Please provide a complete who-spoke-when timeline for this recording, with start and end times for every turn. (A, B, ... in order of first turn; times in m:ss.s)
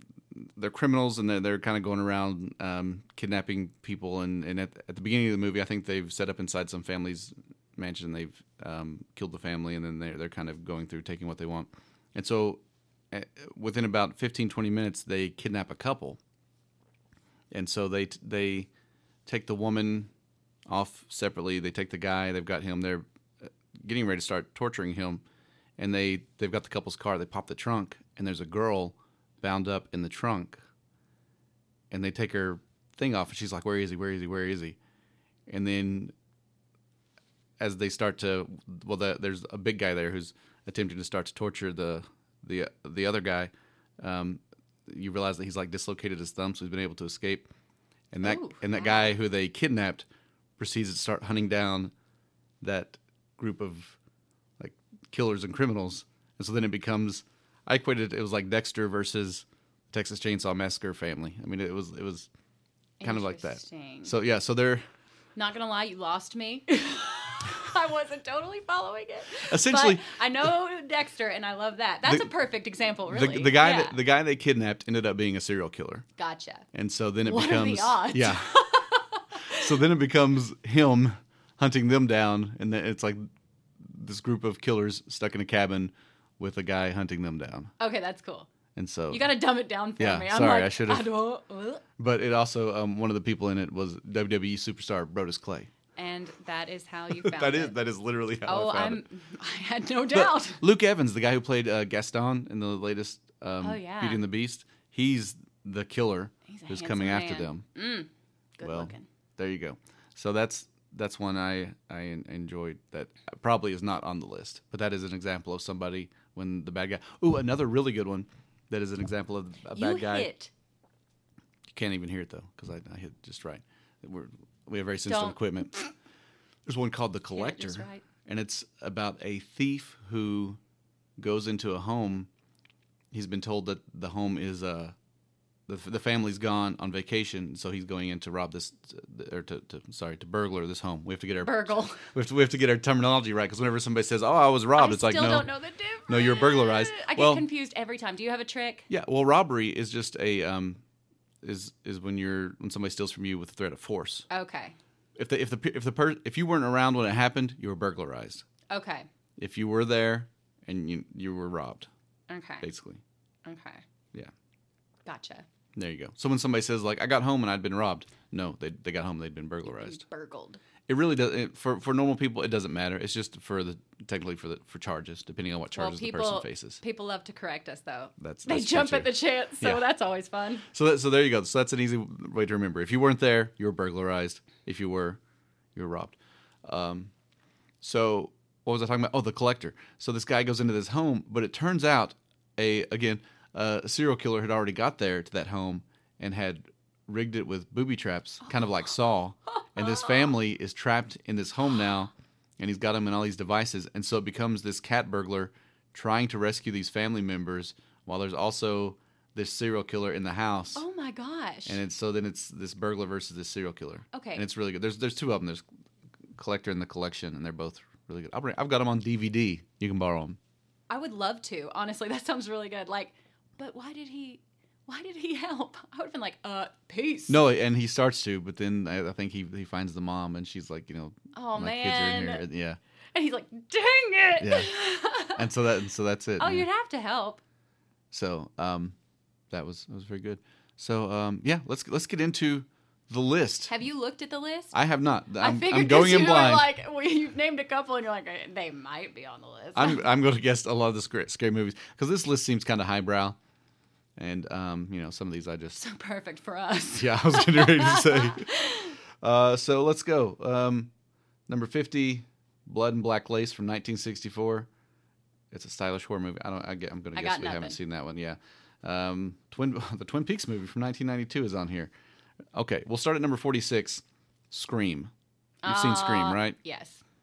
0:00.3-0:16.2 A
0:17.5-0:18.7 A
0:19.2-0:20.1 A
0:20.7-0:25.2 A
0:25.8-0:30.6 A
0:31.9-0:34.8 A
0:35.5-0:36.1 A
0:37.6-0:47.5 A
0:48.1-0:50.1 A
0:48.2-0:49.2 B
0:50.6-0:51.9 A
0:52.6-0:54.0 A
0:54.6-1:02.3 A
1:03.0-1:04.1 B
1:03.0-1:04.8 A
1:05.4-1:14.0 B
1:09.4-1:10.5 A
1:12.0-1:12.3 A
1:13.1-1:16.0 A
1:16.2-1:16.7 B
1:16.7-1:18.6 A
1:17.2-1:19.7 B
1:19.5-1:23.2 A
1:23.8-1:27.7 A
1:27.8-1:28.5 B
1:28.8-1:29.3 A
1:29.1-1:31.8 B
1:30.0-1:31.1 A
1:32.0-1:35.7 A
1:36.0-1:37.8 B
1:37.2-1:39.0 A
1:38.4-1:40.6 B
1:40.1-1:47.6 A
1:43.6-1:44.2 B
1:46.5-1:49.1 B
1:48.6-2:00.3 A
1:59.7-2:00.5 B
2:01.7-2:05.8 A
2:05.1-2:05.4 B
2:06.6-2:10.6 A
2:07.3-2:08.0 B
2:11.2-2:12.3 A
2:13.1-2:15.0 A
2:15.7-2:25.5 A
2:21.4-2:22.1 B
2:24.8-2:28.9 B
2:26.1-2:27.4 A
2:28.9-2:30.8 A
2:31.4-2:34.2 A
2:34.3-2:34.7 B
2:35.2-2:38.4 A
2:38.7-2:39.1 B
2:39.4-2:41.9 A
2:42.3-2:42.7 B
2:42.6-2:43.0 A
2:43.4-2:43.8 B
2:45.0-2:45.4 B
2:45.8-2:50.0 A
2:49.6-2:50.6 B
2:50.9-2:56.8 A
2:55.7-3:00.6 B
2:58.2-2:59.8 A
3:00.7-3:05.2 A
3:05.7-3:07.1 A
3:07.8-3:30.8 A
3:30.7-3:31.8 B
3:31.6-3:35.6 A
3:34.1-3:34.4 B
3:36.3-3:40.4 A
3:40.9-3:47.4 B
3:47.3-3:52.8 A
3:51.3-3:52.5 B
3:53.1-3:55.4 B
3:54.4-3:54.7 A
3:55.2-3:56.6 A
3:56.4-3:57.4 B
3:58.1-3:59.0 A
3:59.5-4:03.7 A
4:03.7-4:04.8 B
4:04.7-4:06.7 A
4:05.4-4:10.0 B
4:09.7-4:13.4 A
4:14.2-4:15.8 A
4:15.8-4:19.0 B
4:17.0-4:18.6 A
4:19.2-4:20.9 A
4:21.5-4:24.7 A
4:25.5-4:31.9 A
4:27.1-4:27.8 B
4:32.5-4:35.1 A
4:35.6-4:37.0 B
4:35.6-4:36.6 A